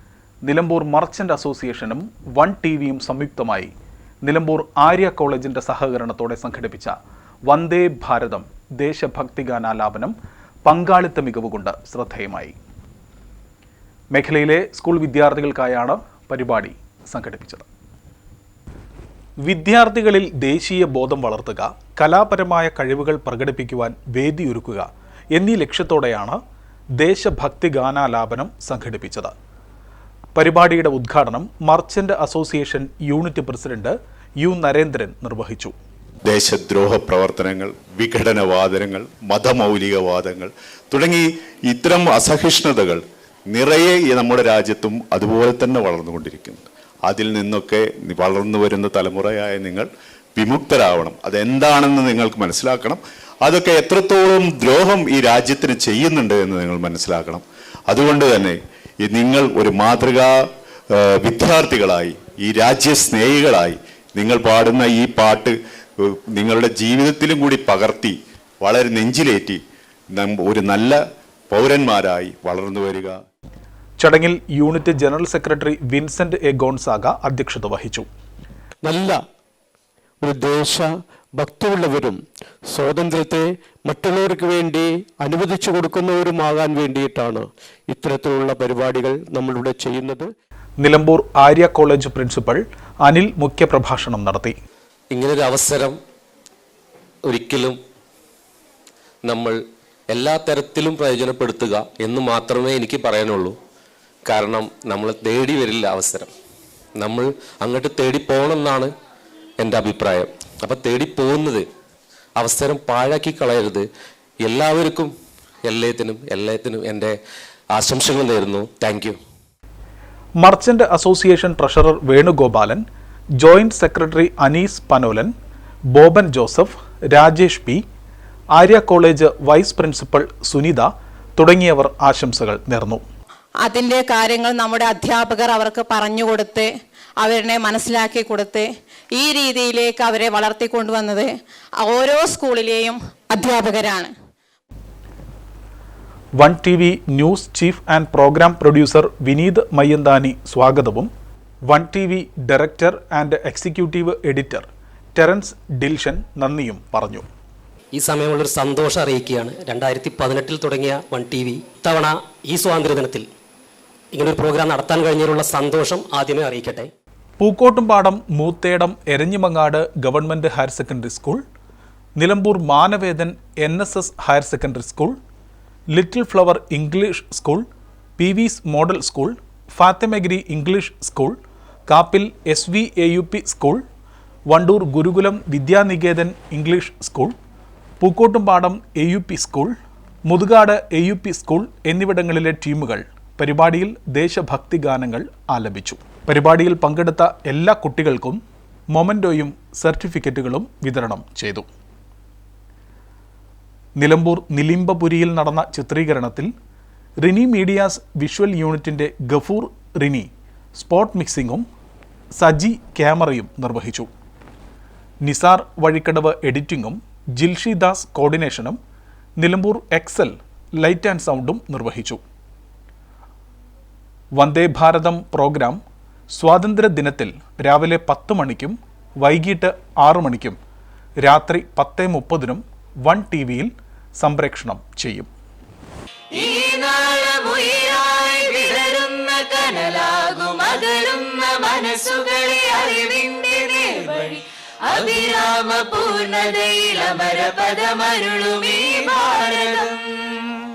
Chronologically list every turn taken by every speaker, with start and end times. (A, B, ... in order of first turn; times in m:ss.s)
0:00.4-0:03.7 A
0:04.2-0:07.0 A
0:07.5-0:12.6 A
0:14.1-0:17.7 A
0:19.4-0:26.4 A
0:27.0-0:29.3 A
0:30.4-0:35.7 A
0:36.3-0:43.0 B
0:43.5-1:00.3 B
1:00.9-1:09.6 B
1:10.1-1:11.0 B
1:11.5-1:13.2 B
1:14.0-1:18.0 A
1:18.8-1:19.2 C
1:20.2-1:22.2 C
1:22.7-1:30.3 C
1:30.8-1:34.6 A
1:35.1-1:36.0 D
1:37.3-1:37.8 D
1:39.2-1:39.6 D
1:40.1-1:43.6 D
1:44.3-1:46.3 D
1:47.0-1:48.9 D
1:49.6-1:51.6 D
1:52.4-1:53.9 D
1:54.4-1:55.1 D
1:55.6-1:57.1 D
1:57.8-1:59.2 D
2:00.4-2:02.8 A
2:03.4-2:05.3 A
2:05.9-2:07.8 A
2:08.5-2:13.0 A
2:13.6-2:16.7 E
2:17.2-2:24.1 E
2:26.4-2:31.1 A
2:31.7-2:37.2 A
2:37.9-2:43.3 F
2:44.1-2:46.9 F
2:47.4-2:51.4 A
2:52.2-2:55.2 A
2:55.9-2:57.7 A
2:58.2-3:01.4 A
3:01.9-3:03.8 A
3:04.5-3:07.3 A
3:08.0-3:09.7 A
3:10.3-3:18.4 A
3:18.9-3:21.7 A
3:24.0-3:26.5 A
3:27.2-3:31.6 A
3:32.3-3:34.1 A
3:35.2-3:38.8 A
3:39.4-3:42.2 A
3:44.3-3:45.8 A
3:46.3-3:50.6 A
3:51.2-3:55.3 A
3:56.4-4:10.5 G